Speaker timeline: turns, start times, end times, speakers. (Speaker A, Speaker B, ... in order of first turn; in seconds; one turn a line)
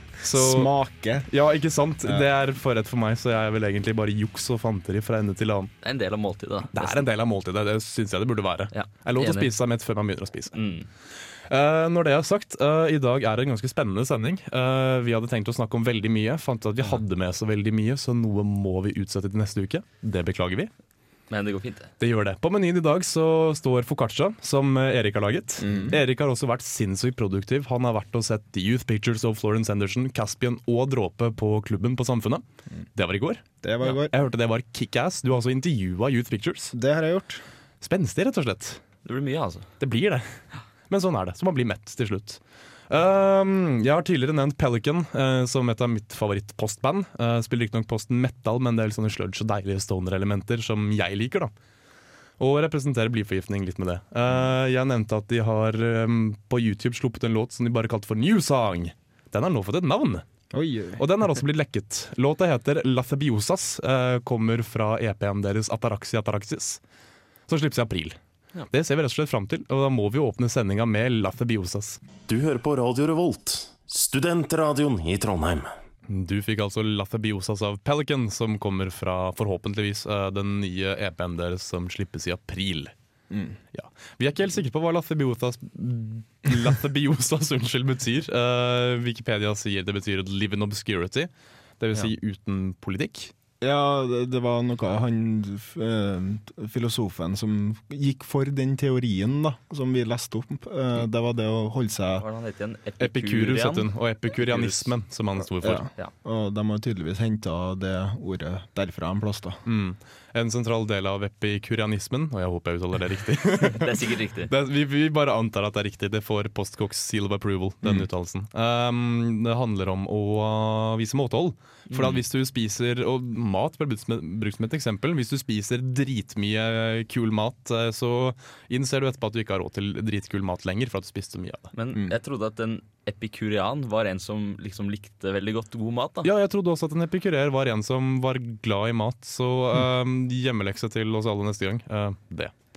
Speaker A: 0.2-0.7
Speaker B: 0.2-1.3
Speaker A: 1.2-5.7
Speaker C: 5.8-7.0
Speaker A: 6.7-10.5
Speaker C: 8.7-9.5
Speaker C: 10.5-10.9
Speaker A: 11.5-20.7
Speaker C: 21.3-21.9
Speaker A: 22.0-32.4
Speaker B: 25.6-26.0
Speaker A: 32.9-36.7
Speaker B: 33.6-34.1
Speaker B: 36.7-37.4
Speaker A: 37.8-38.8
Speaker C: 39.0-39.7
Speaker A: 39.8-51.5
Speaker A: 52.4-60.2
Speaker B: 60.5-61.0
Speaker A: 61.0-66.8
Speaker A: 67.5-68.2
Speaker A: 68.7-72.0
Speaker D: 72.3-75.7
Speaker A: 76.1-82.9
Speaker B: 83.3-83.6
Speaker A: 83.7-93.3
Speaker B: 93.6-102.2
Speaker C: 102.2-104.9
Speaker A: 103.0-105.8
Speaker B: 105.6-109.6
Speaker A: 109.6-131.7
Speaker C: 113.8-114.5
Speaker C: 121.9-122.2
Speaker C: 131.7-136.3
Speaker A: 136.2-142.5